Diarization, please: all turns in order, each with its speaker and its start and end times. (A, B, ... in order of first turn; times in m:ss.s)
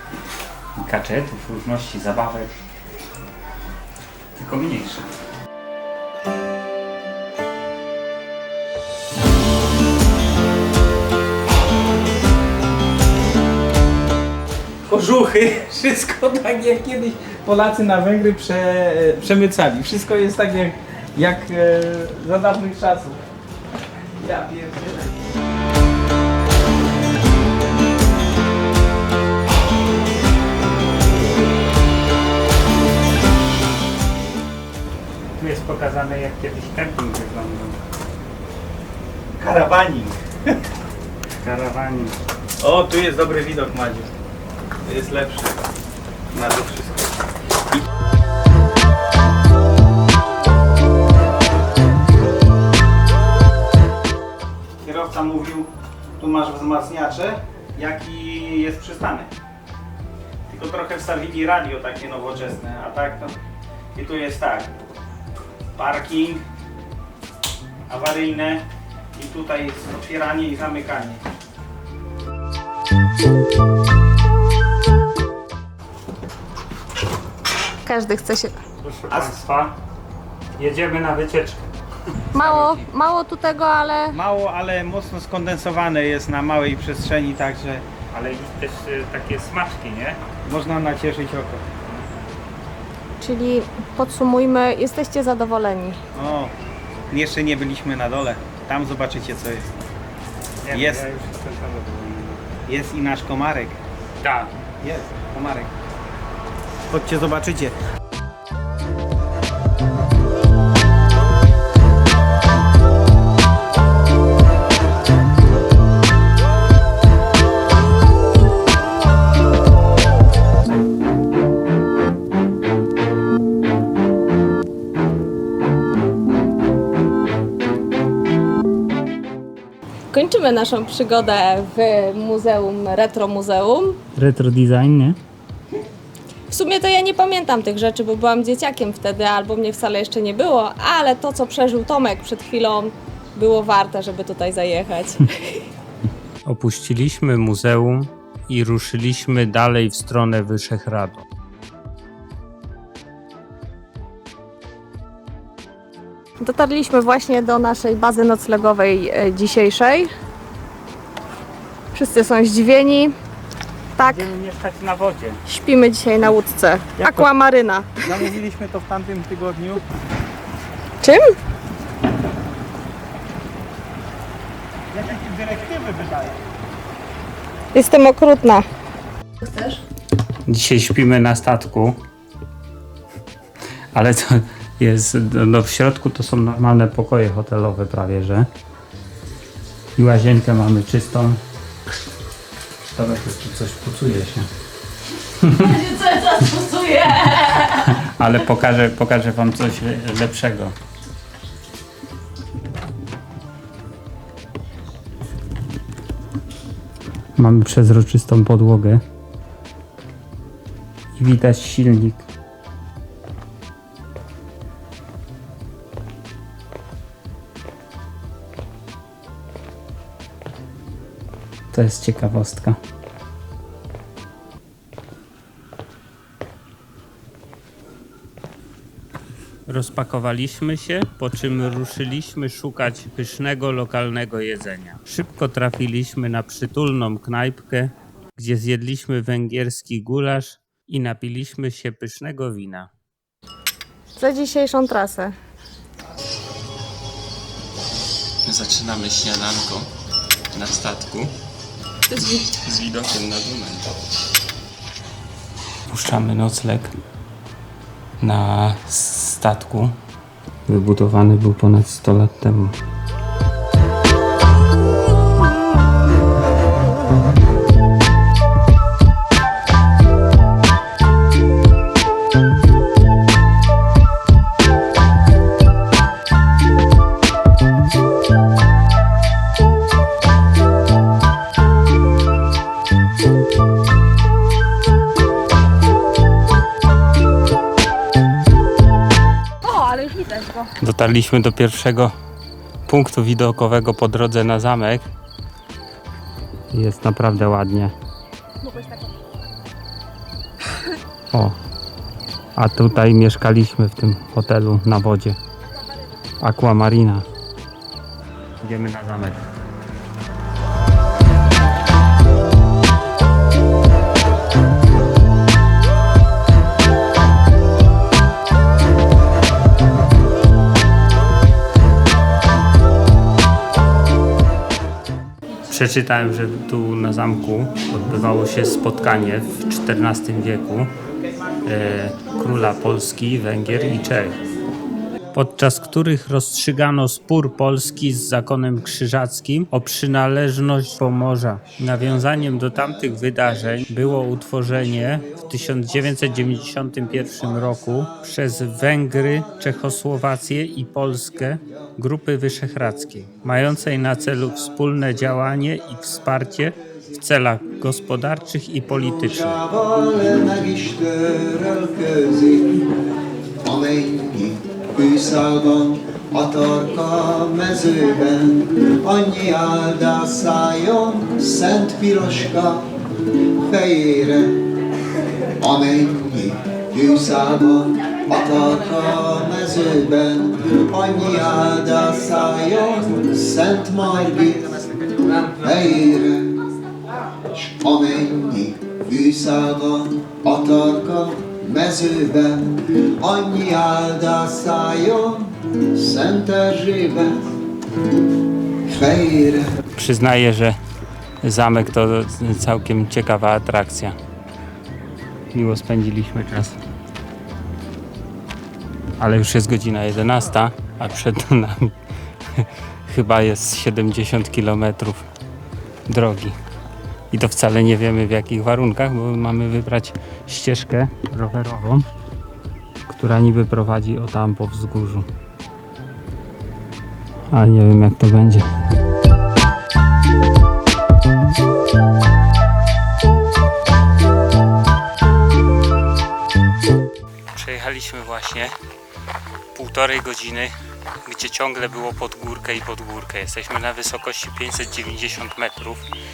0:00.8-0:02.5 A
0:04.4-0:05.0 A
0:14.9-0:23.2 B
0:24.2-0:25.1 B
0:35.4-0:37.8 A
0:39.4-0:40.5 B
0:41.4-0:42.2 A
0:42.6-0:44.1 B
0:44.8-0:45.5 B
0:46.3-0:47.1 B
0:54.8-0:59.3 B
1:00.5-1:03.4 B
1:04.0-1:04.7 B
1:05.8-1:06.4 B
1:07.9-1:08.6 B
1:09.2-1:11.2 B
1:17.8-1:18.6 C
1:18.8-1:19.7 A
1:20.6-1:21.7 A
1:22.3-1:24.2 C
1:22.5-1:22.8 B
1:24.1-1:27.8 B
1:28.1-1:30.2 A
1:30.4-1:31.6 B
1:33.2-1:36.0 C
1:36.1-1:36.5 B
1:37.1-1:39.7 B
1:40.6-1:42.4 A
1:40.7-1:41.0 B
1:42.7-1:43.8 B
1:44.2-1:44.5 A
1:44.8-1:45.7 B
1:46.9-1:47.8 B
2:10.1-2:14.0 C
2:14.2-2:15.2 A
2:16.5-2:25.6 C
2:26.4-2:31.2 A
2:36.4-2:40.1 C
2:41.9-2:43.1 C
2:44.0-2:44.3 C
2:44.0-2:45.4 A
2:45.5-2:47.9 C
2:47.0-2:47.3 B
2:48.0-2:49.8 B
2:51.0-2:51.3 C
2:54.9-2:56.4 B
2:57.7-2:58.6 C
2:59.4-2:59.8 C
3:00.5-3:02.0 A
3:03.9-3:08.5 A
3:10.0-3:11.4 A
3:12.9-3:14.5 A
3:15.3-3:15.8 A
3:15.7-3:17.6 C
3:17.3-3:20.8 A
3:27.4-3:29.0 A
3:31.2-3:32.2 A
3:41.7-3:42.8 A
3:49.7-4:02.9 A
4:04.2-4:05.3 C
4:08.4-4:09.9 A
4:10.5-4:11.3 A
4:12.1-4:12.4 C
4:12.5-4:13.9 A
4:15.9-4:16.9 A
4:18.2-4:20.0 A
4:20.7-4:22.8 A
4:49.6-4:50.7 C
4:50.8-4:52.1 A
4:52.9-4:55.1 A
4:56.7-4:57.9 A
4:58.6-4:59.1 C
5:02.6-5:05.4 A
5:06.4-5:07.2 A
5:08.6-5:09.4 A
5:25.7-5:30.9 A
5:31.6-5:34.4 A
5:35.3-5:59.6 A
5:59.5-6:02.8 D
6:03.6-6:12.9 D
6:13.5-6:14.6 D
6:15.6-6:26.6 D
6:27.6-6:37.5 D
6:38.9-6:39.7 D
6:40.0-6:40.8 A
6:41.4-6:44.2 A
6:45.5-6:46.8 A
6:49.2-6:51.9 A
6:52.6-6:55.3 A
6:56.1-6:56.6 A
6:57.3-7:02.1 A
7:03.1-7:05.3 A
7:07.5-7:08.7 A
7:17.5-7:18.7 A
7:19.7-7:20.7 A
7:21.2-7:26.0 A